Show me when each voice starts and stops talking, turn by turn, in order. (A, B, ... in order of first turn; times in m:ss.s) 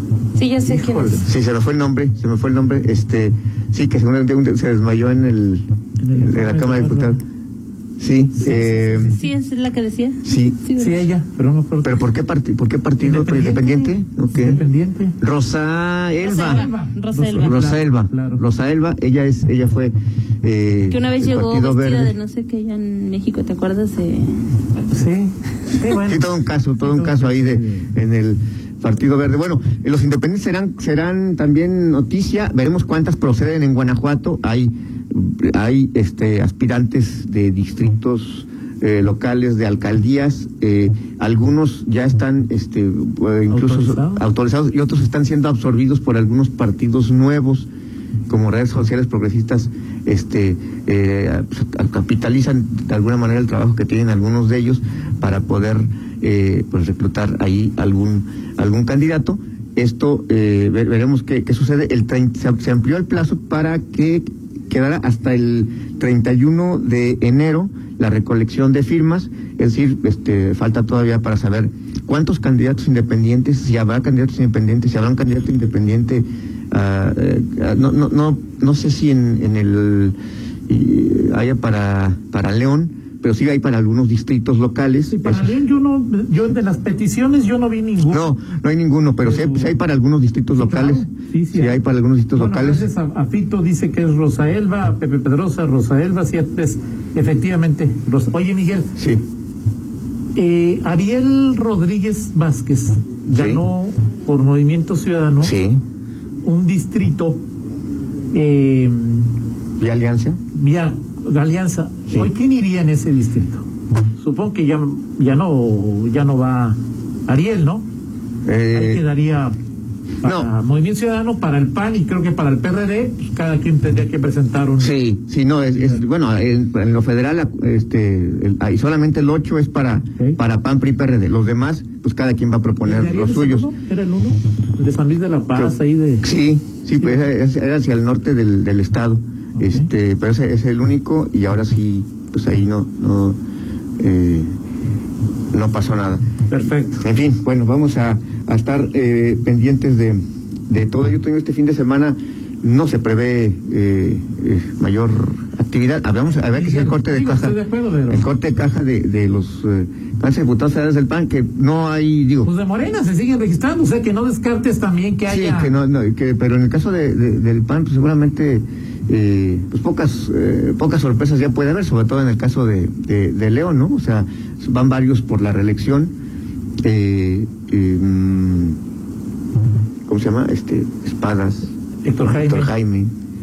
0:00.3-0:01.2 A
0:00.6-0:01.3 B
0:01.1-0:07.2 C
0:06.0-0:07.2 B
0:08.0-0:09.2 C
0:08.4-0:09.2 B
0:09.1-0:11.0 A
0:10.2-0:10.6 C
0:10.8-0:12.0 B
0:11.8-0:14.6 C
0:13.0-0:13.7 B
0:14.3-0:15.2 B
0:15.2-0:16.7 C
0:16.2-0:17.7 A
0:16.4-0:18.4 B
0:17.3-0:22.1 C
0:20.8-0:24.4 A
0:24.9-0:27.9 B
0:25.9-0:47.7 C
0:43.5-0:44.2 B
0:48.3-1:20.2 C
1:20.7-1:25.6 C
1:25.1-1:28.3 B
1:28.0-1:32.9 C
1:29.2-1:29.7 B
1:30.6-1:31.8 B
1:32.3-1:38.9 B
1:39.0-1:39.2 C
1:40.3-1:45.5 B
1:43.2-1:43.6 C
1:45.4-1:45.8 C
1:46.4-1:47.4 B
1:48.3-1:49.3 B
1:49.8-1:50.4 C
1:50.5-1:53.6 B
1:54.2-1:57.8 B
1:58.4-1:59.0 C
1:58.7-1:59.6 B
2:00.2-2:04.9 B
2:00.2-2:00.5 C
2:04.8-2:13.7 C
2:05.7-2:06.0 B
2:12.8-2:16.3 B
2:15.5-2:23.4 C
2:19.6-2:19.9 B
2:24.0-2:24.5 C
2:25.5-2:26.2 C
2:26.5-2:27.1 B
2:27.0-2:42.5 C
2:36.5-2:38.2 B
2:42.4-2:45.7 B
2:45.3-2:56.1 C
2:56.8-2:58.8 C
3:00.1-3:03.1 C
3:02.0-3:02.7 B